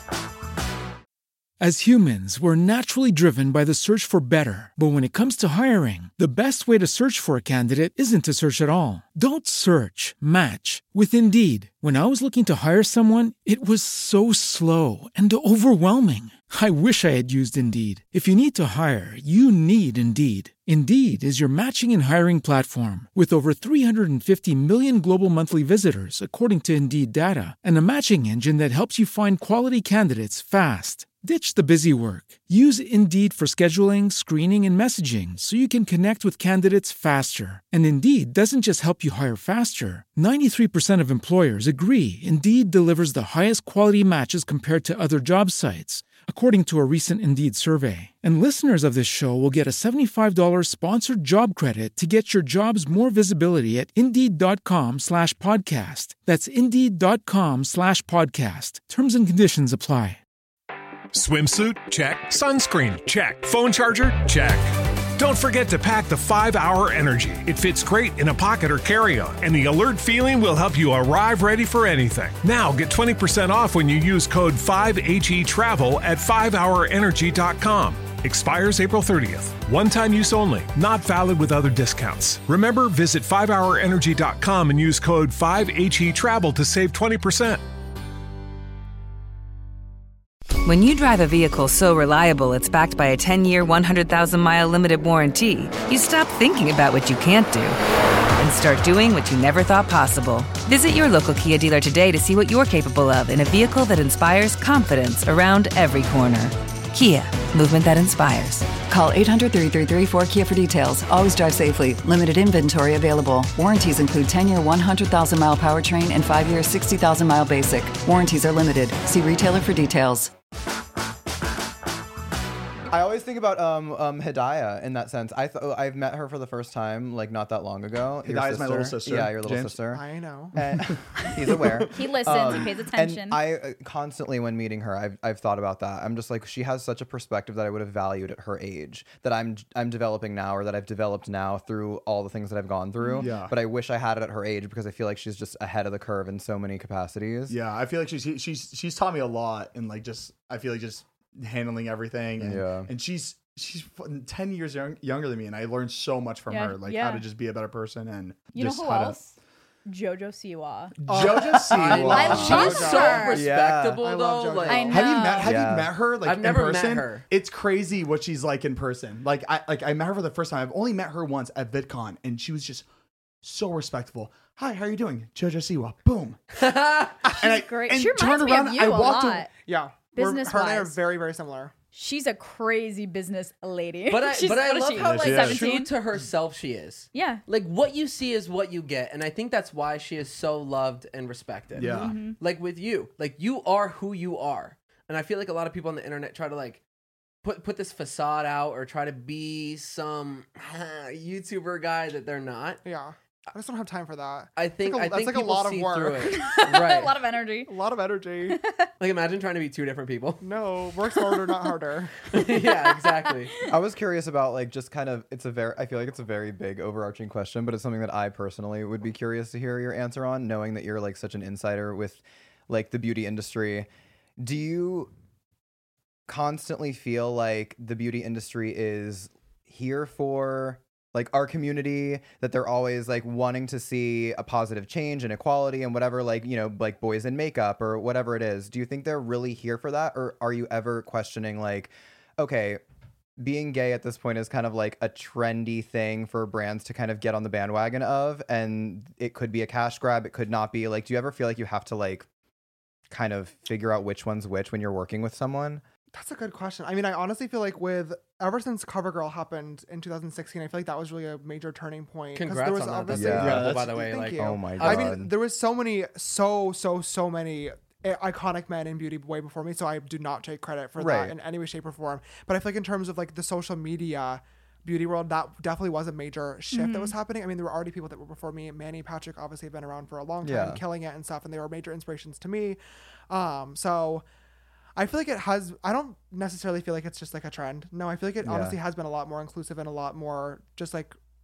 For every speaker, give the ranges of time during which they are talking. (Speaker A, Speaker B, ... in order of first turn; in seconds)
Speaker A: 1.6-60.2
Speaker B: 61.1-87.6
Speaker C: 90.6-97.8, 98.4-108.8
Speaker D: 108.8-120.3
Speaker E: 122.9-130.0, 130.5-147.6, 152.4-152.9, 163.3-164.0, 165.4-165.9, 213.7-223.9, 224.4-225.1, 226.3-242.8, 243.4-252.3, 253.1-255.8, 263.1-265.3, 271.0-271.4, 280.4-280.8, 288.4-288.8
Speaker F: 128.2-129.8, 130.6-132.7, 143.2-143.6, 147.5-159.2, 161.0-162.9, 164.9-172.9, 173.4-176.4, 177.2-179.5, 185.0-185.7, 191.8-192.2, 263.4-263.9
Speaker G: 129.9-130.6, 161.1-163.4, 164.0-165.1, 179.6-181.7, 202.8-206.4, 207.7-208.6, 210.4-212.2, 256.1-282.8, 283.3-284.2, 285.0-291.1
Speaker H: 131.9-133.4, 143.0-143.3, 156.5-157.2, 158.5-163.4, 164.7-165.6, 177.3-179.5, 180.2-181.0, 181.9-185.9, 187.1-187.4, 191.8-192.4, 206.3-207.7, 208.5-208.9, 211.3-211.6, 276.7-277.1
Speaker I: 161.8-165.0, 166.2-167.3, 176.5-177.2, 184.1-196.8, 197.4-202.8, 204.6-207.2, 209.0-210.4, 212.3-213.5, 262.4-265.1